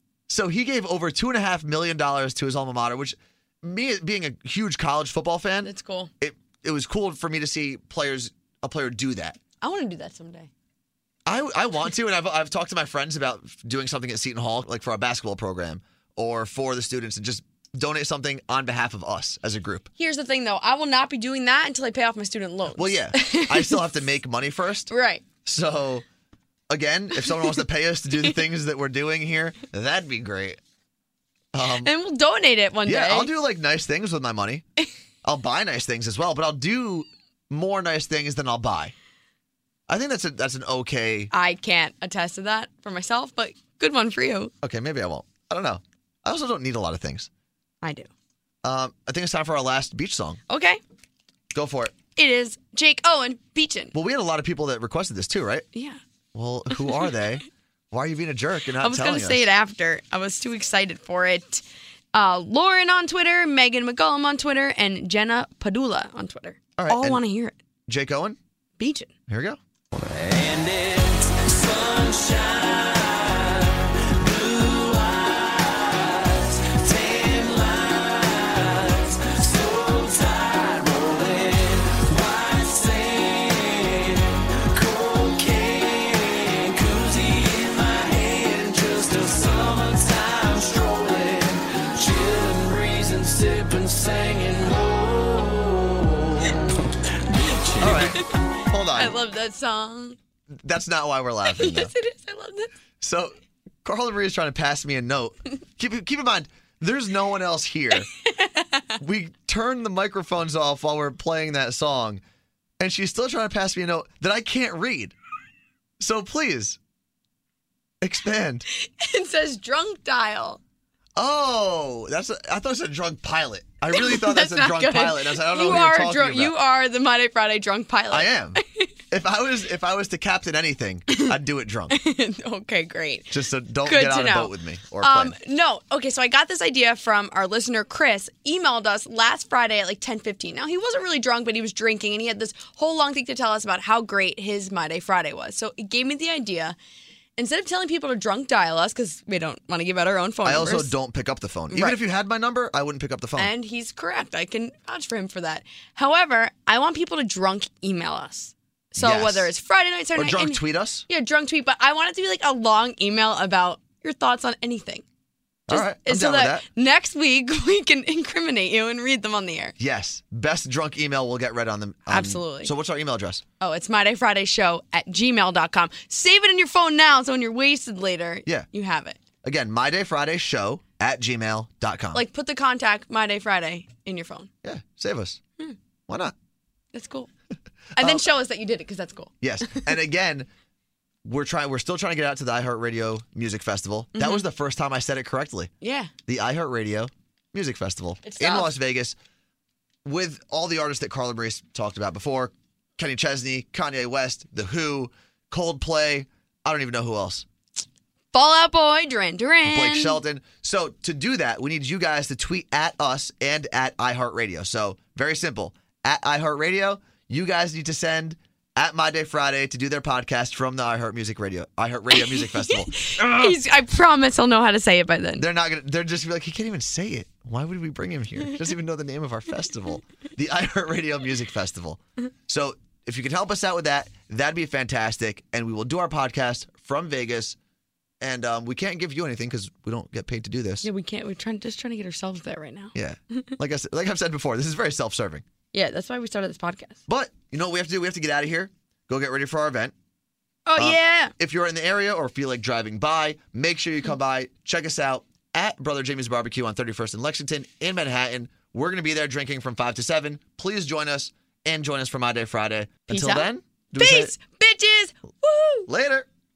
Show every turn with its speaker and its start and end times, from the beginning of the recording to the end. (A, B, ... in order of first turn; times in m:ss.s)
0:00.3-0:09.4 A
0:05.6-0:06.1 B
0:09.6-0:10.5 B
0:11.2-0:19.9 A
0:20.0-0:23.8 B
0:22.7-0:24.9 A
0:24.9-0:25.2 B
0:25.4-0:26.0 A
0:26.7-0:30.6 A
0:27.2-0:27.5 B
0:31.5-0:31.9 A
0:31.8-0:33.3 B
0:32.8-0:34.6 A
0:35.2-0:38.9 A
0:39.9-0:41.3 A
0:41.3-0:44.5 B
0:44.6-0:47.3 A
0:47.8-0:48.1 B
0:48.6-0:50.4 A
0:50.5-0:50.8 B
0:51.5-0:51.9 A
0:52.2-0:53.9 B
0:53.9-0:55.6 A
0:55.7-0:56.0 B
0:56.3-0:59.5 A
0:58.8-1:01.6 B
1:02.1-1:07.6 B
1:06.8-1:07.2 A
1:07.9-1:08.4 A
1:08.8-1:09.1 B
1:09.3-1:09.6 A
1:10.1-1:36.5 C
1:37.4-1:38.0 C
1:37.8-1:39.1 A
1:38.9-1:40.2 B
1:40.5-1:41.9 A
1:41.5-1:42.7 B
1:43.0-1:48.1 A
1:47.9-1:49.0 B
1:49.0-1:52.2 A
1:52.8-1:55.1 A
1:56.0-1:56.8 A
1:58.0-1:58.6 A
1:58.7-2:00.6 B
2:01.2-2:06.5 A
2:03.9-2:08.9 B
2:08.1-2:12.0 A
2:11.9-2:26.8 B
2:13.3-2:15.4 A
2:27.4-2:30.9 B
2:30.4-2:33.5 A
2:31.7-2:32.0 B
2:33.4-2:45.0 B
2:39.0-2:39.5 A
2:40.1-2:41.0 A
2:45.7-2:46.6 A
2:45.7-2:49.7 B
2:49.8-2:53.4 A
2:52.1-2:52.7 B
2:53.6-2:59.2 B
2:59.4-3:02.2 A
3:02.1-3:04.5 B
3:04.6-3:05.4 A
3:06.1-3:06.3 A
3:06.9-3:07.3 B
3:08.0-3:08.2 A
3:08.0-3:09.9 B
3:09.4-3:10.5 A
3:11.2-3:15.7 A
3:14.1-3:14.4 B
3:15.8-3:16.1 B
3:16.2-3:19.2 A
3:18.2-3:18.7 B
3:20.0-3:27.4 A
3:28.3-3:30.2 B
3:29.6-3:43.6 A
3:42.1-3:45.4 B
3:45.4-3:57.6 A
3:58.2-4:00.9 A
4:00.8-4:03.5 B
4:02.9-4:05.4 A
4:05.7-4:07.0 B
4:07.1-4:09.9 A
4:10.6-4:11.3 B
4:10.8-4:24.3 A
4:23.1-4:25.9 B
4:25.9-4:26.3 A